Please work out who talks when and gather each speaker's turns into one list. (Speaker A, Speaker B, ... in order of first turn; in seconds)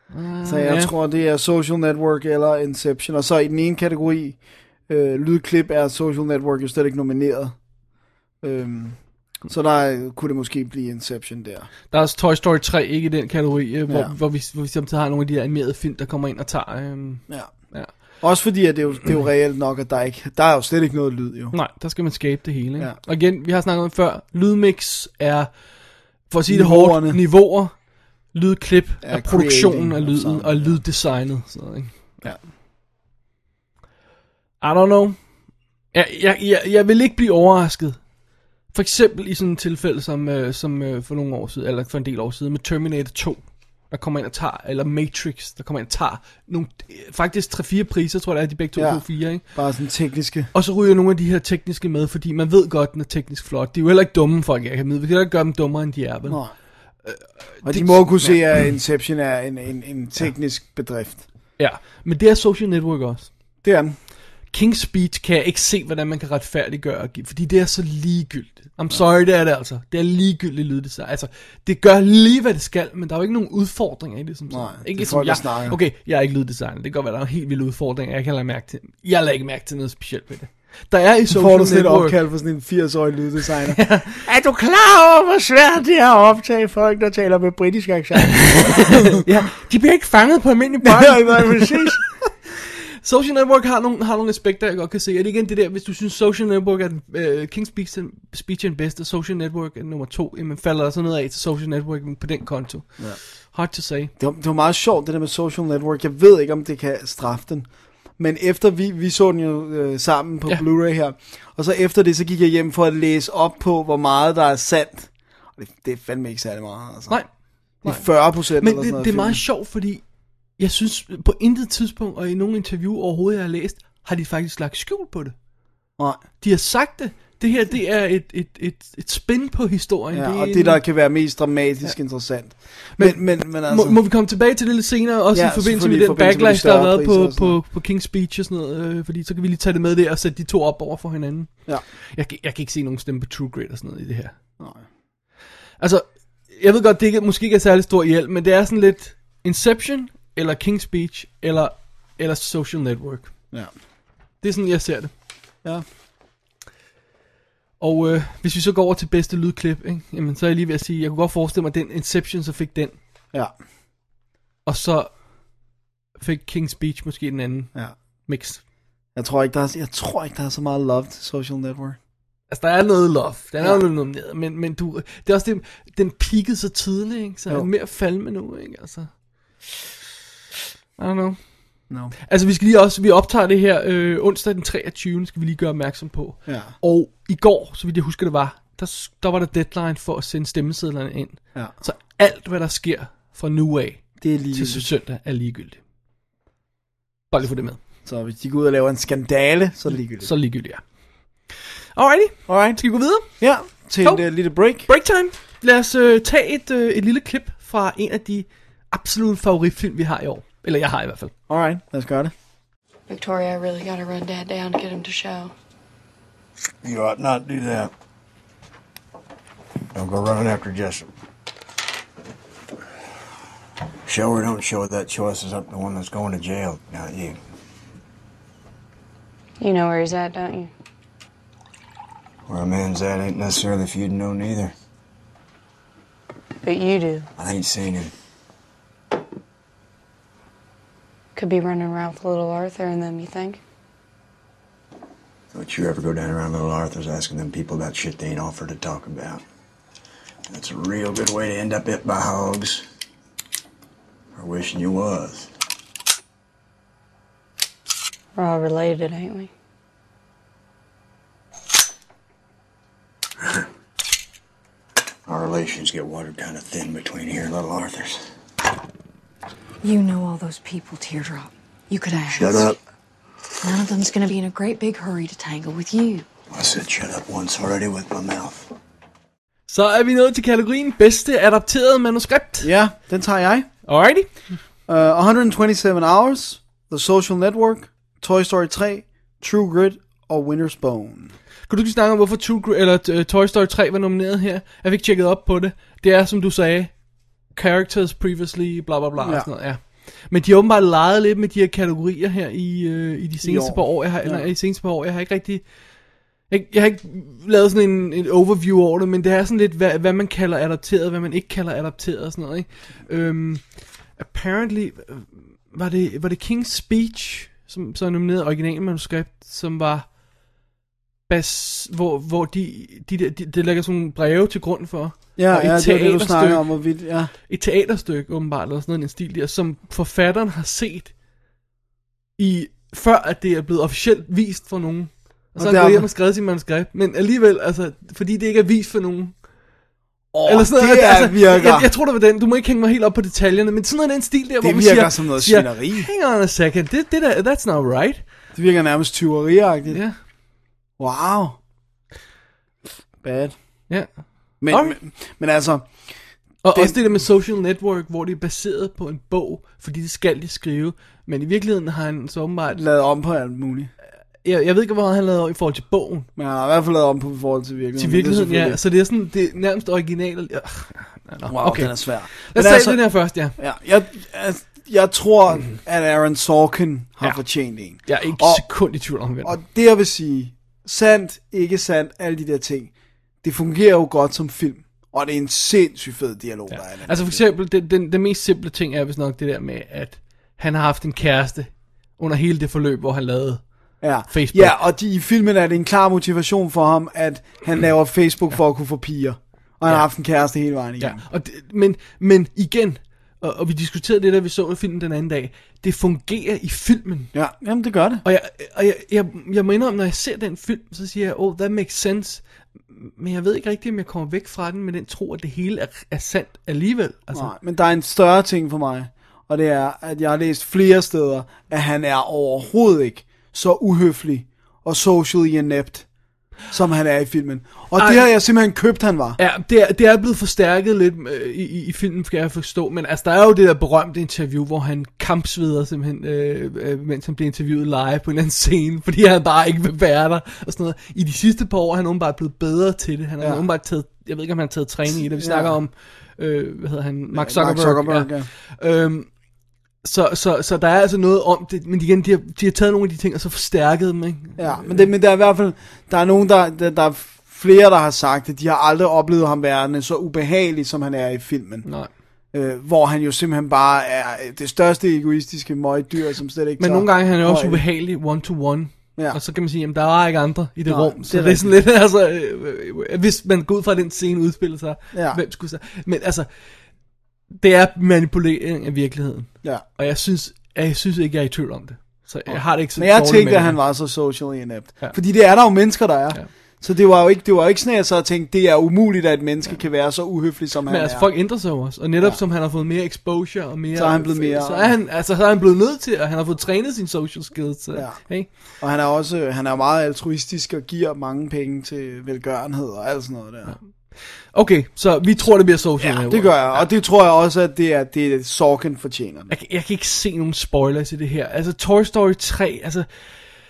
Speaker A: 0.1-0.9, 11.9-17.9, 21.5-25.6, 26.3-32.3, 34.6-35.2, 35.9-38.0, 38.7-49.5, 50.5-56.4, 57.0-58.5, 61.6-63.3, 64.5-82.2, 83.7-84.2, 88.2-92.0, 93.0-104.1, 117.8-120.0, 120.6-125.3, 126.4-130.8, 132.9-144.3, 145.8-153.3, 154.4-155.1, 157.8-163.0, 164.7-165.1, 166.2-167.7, 168.3-168.6, 172.5-179.1, 181.0-181.4, 182.3-195.8, 197.3-197.8, 200.2-200.8, 201.5-203.4, 204.9-211.3, 279.7-282.7, 283.9-284.3, 291.7-297.0, 297.5-305.6, 306.5-320.1, 321.3-331.1, 332.4-339.4, 340.4-348.2, 349.9-350.2, 354.7-354.9, 356.6-362.8, 364.4-366.3, 368.0-373.6, 378.1-379.6, 386.7-394.8, 401.0-407.3, 408.2-417.5, 427.9-428.3, 429.4-449.3, 450.0-455.1, 461.9-462.1, 466.8-476.5, 477.6-483.8, 490.9-498.5, 503.7-506.9, 509.5-513.1
Speaker B: 0.4-7.6, 8.4-11.7, 13.9-14.1, 17.3-21.6, 26.5-27.2, 29.0-30.8, 48.8-50.5, 56.3-56.5, 57.6-61.2, 63.6-64.0, 74.5-75.8, 81.3-89.5, 90.8-92.3, 104.2-117.2, 117.8-119.4, 130.1-134.0, 135.3-137.6, 144.6-144.9, 169.2-172.0, 186.5-186.7, 194.2-194.9, 198.1-200.3, 202.5-204.9, 211.5-212.3, 282.6-283.7, 284.9-291.4, 299.2-299.5, 303.4-304.5, 325.4-327.3, 335.6-336.1, 340.3-341.9, 344.6-346.1, 348.5-350.0, 351.0-351.6, 353.2-353.6, 354.6-356.0, 356.7-357.0, 362.7-363.9, 366.4-368.8, 371.4-378.7, 379.4-387.4, 394.0-401.2, 407.3-408.2, 417.3-426.1, 426.7-429.4, 443.4-443.6, 445.1-445.8, 447.3-448.5, 454.6-461.9, 462.5-467.8, 470.9-471.8, 475.1-475.4, 482.5-491.3, 493.9-494.9, 497.9-503.8, 506.0-509.5
Speaker C: 213.1-215.5, 229.6-230.7, 236.6-237.3, 241.3-243.6, 258.4-259.5
Speaker D: 216.8-217.9, 219.9-221.1, 224.1-227.4, 232.5-234.7, 237.4-238.1, 245.5-249.4, 250.5-252.8, 254.3-255.5, 265.3-268.2, 272.3-272.8, 276.5-278.7
Speaker E: 269.8-272.7, 273.6-276.3